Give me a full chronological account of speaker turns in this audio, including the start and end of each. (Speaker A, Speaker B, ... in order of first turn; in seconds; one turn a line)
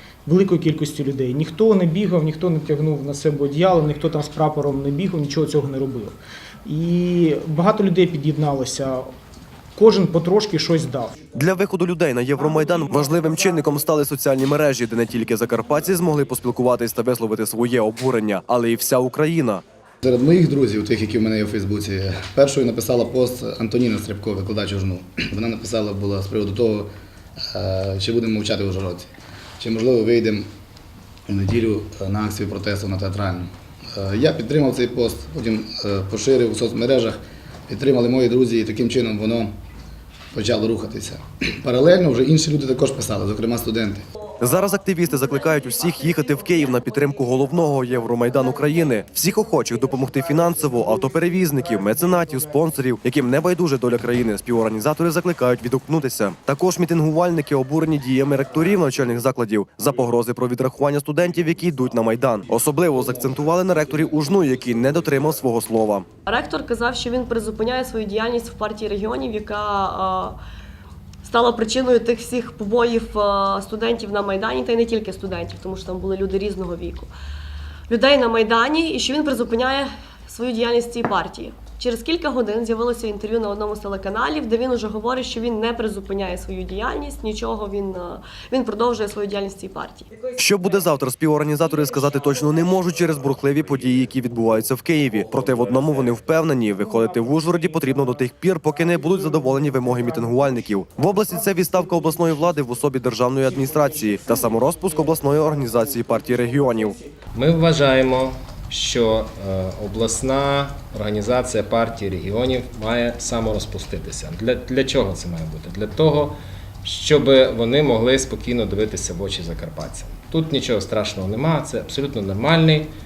Speaker A: 0.2-9.1
Speaker A: 9.8-11.2
Speaker B: 11.3-19.6
Speaker C: 20.0-26.9
Speaker C: 27.5-30.5
Speaker C: 31.3-39.5
Speaker C: 40.3-44.0
Speaker B: 44.4-66.0
Speaker D: 45.3-46.9
Speaker D: 66.3-70.4
Speaker D: 71.2-77.1
Speaker D: 77.9-90.2
Speaker B: 90.3-107.0
Speaker A: 99.5-100.3
Speaker A: 101.4-101.9
Speaker A: 103.7-107.1
Speaker E: 107.3-122.9